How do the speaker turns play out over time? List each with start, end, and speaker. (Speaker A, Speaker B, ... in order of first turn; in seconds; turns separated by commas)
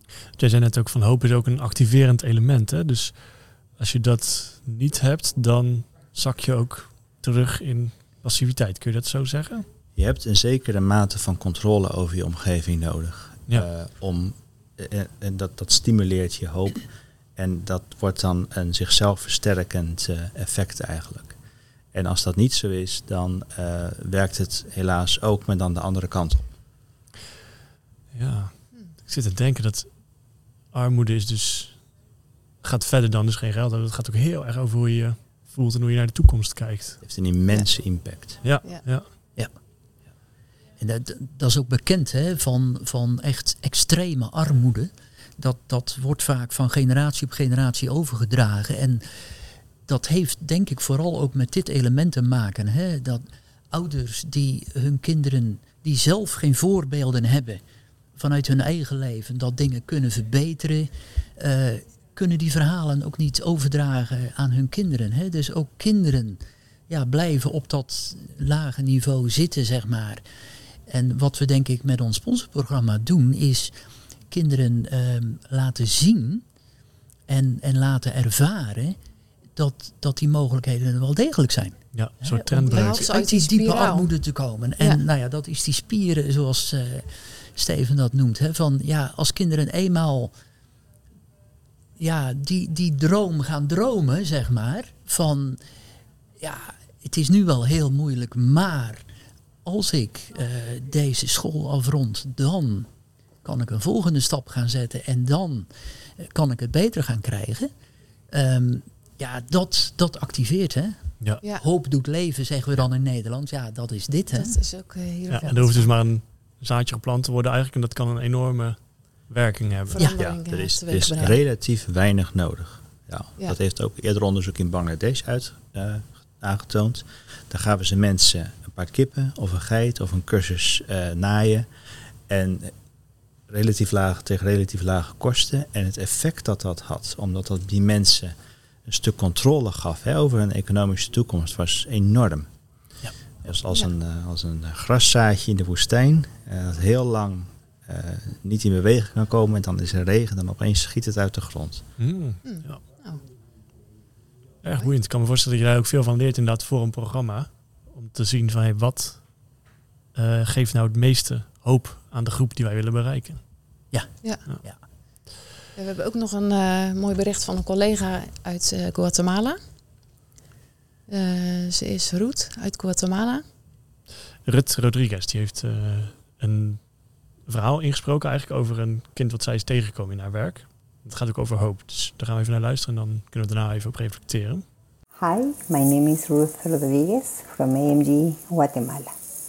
Speaker A: 0.4-9.7, Speaker B: 9.9-21.4, Speaker B: 21.9-26.5, Speaker A: 28.1-31.9, Speaker A: 32.6-37.0, Speaker B: 37.0-38.4, Speaker A: 38.4-39.1, Speaker C: 40.8-49.3, Speaker C: 49.9-57.6, Speaker C: 58.2-70.2, Speaker C: 70.9-73.7, Speaker C: 74.3-76.4, Speaker C: 77.3-79.0, Speaker C: 79.6-90.3, Speaker A: 81.9-83.0, Speaker D: 82.7-84.1, Speaker C: 92.0-95.6, Speaker C: 96.4-99.0, Speaker C: 99.7-102.9, Speaker C: 103.4-105.7, Speaker C: 106.2-107.7, Speaker C: 108.3-114.6, Speaker D: 114.3-115.9, Speaker A: 115.3-120.2, Speaker D: 120.0-121.4, Speaker B: 120.2-131.7, Speaker B: 132.3-132.7, Speaker B: 133.5-138.3, Speaker B: 138.8-142.5, Speaker B: 143.4-151.8, Speaker A: 152.0-152.8, Speaker D: 152.4-153.2, Speaker A: 154.6-159.4, Speaker A: 160.1-163.8, Speaker C: 163.9-164.8, Speaker D: 165.8-169.6, Speaker D: 171.1-173.4, Speaker A: 174.4-176.9, Speaker A: 177.4-184.6, Speaker E: 185.2-189.1